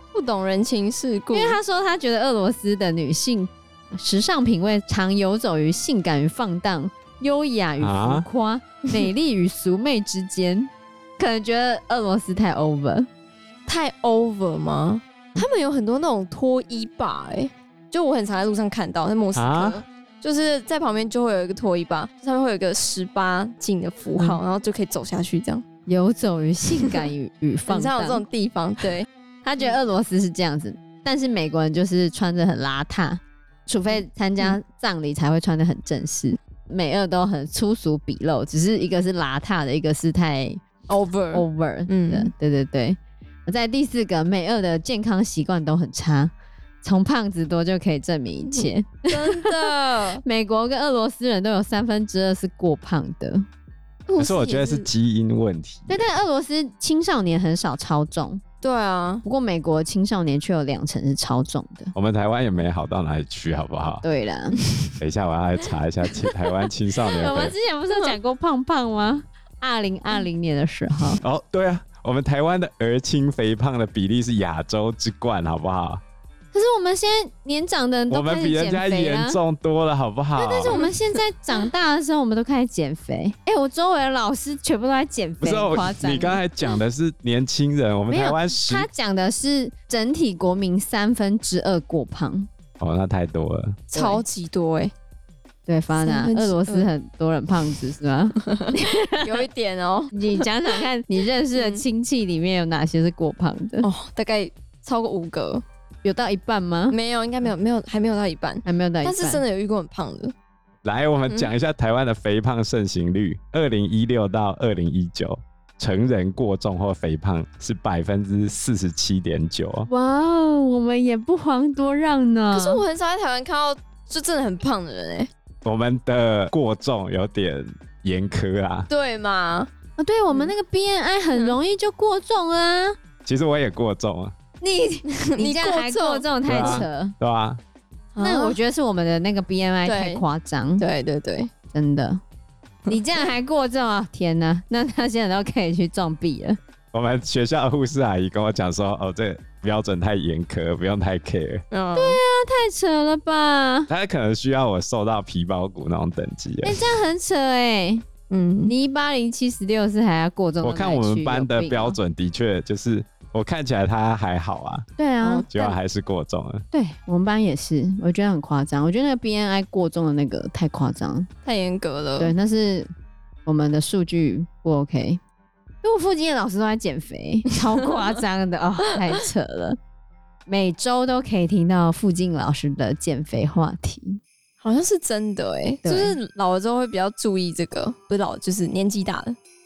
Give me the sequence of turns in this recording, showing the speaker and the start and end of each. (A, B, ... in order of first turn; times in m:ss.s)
0:00.1-0:01.6 A
0:01.3-0:13.1 B
0:07.8-0:08.2 C
0:13.7-0:25.6 A
0:19.3-0:19.8 C
0:25.9-0:28.2 B
0:27.7-0:29.1 A
0:29.4-0:40.6 B
0:40.9-0:42.3 A
0:41.3-0:53.4 B
0:48.5-0:50.2 A
0:54.1-0:54.9 A
0:54.2-0:56.0 C
0:55.9-0:58.4 B
0:58.6-0:59.2 A
0:59.2-1:01.9 B
1:01.9-1:04.0 C
1:04.0-1:04.6 B
1:05.0-1:07.5 C
1:07.1-1:11.2 B
1:11.2-1:16.0 C
1:16.5-1:19.4 B
1:18.1-1:20.7 C
1:20.4-1:26.4 B
1:20.7-1:21.2 A
1:25.4-1:28.9 C
1:28.1-1:32.5 B
1:32.8-1:33.9 C
1:33.9-1:34.9 A
1:33.9-1:34.2 B
1:35.6-1:39.5 B
1:36.0-1:36.9 A
1:38.4-1:40.7 A
1:40.1-1:43.8 B
1:41.6-1:41.8 A
1:43.8-1:45.6 A
1:46.0-1:47.0 B
1:46.9-1:50.3 A
1:48.6-1:49.4 B
1:50.8-1:59.9 C
1:59.9-2:02.8 B
2:02.5-2:05.3 A
2:05.6-2:08.9 C
2:08.9-2:09.7 A
2:10.0-2:13.0 B
2:13.2-2:14.3 C
2:14.6-2:17.1 B
2:15.1-2:16.8 A
2:16.4-2:17.6 C
2:18.1-2:18.6 A
2:18.2-2:20.8 B
2:19.8-2:20.2 A
2:20.8-2:21.5 A
2:21.7-2:22.2 B
2:22.9-2:26.6 B
2:26.9-2:31.6 C
2:31.7-2:32.2 A
2:31.9-2:33.9 B
2:33.9-2:36.9 C
2:36.6-2:38.0 B
2:38.3-2:38.7 A
2:38.7-2:42.0 B
2:40.6-2:44.9 C
2:45.0-2:45.4 B
2:45.2-2:45.8 A
2:45.5-2:46.6 C
2:46.7-2:51.3 B
2:51.4-2:52.3 A
2:52.2-2:52.9 B
2:53.4-2:55.2 B
2:55.8-2:59.8 B
3:00.5-3:04.2 B
3:04.6-3:09.4 A
3:05.8-3:06.2 B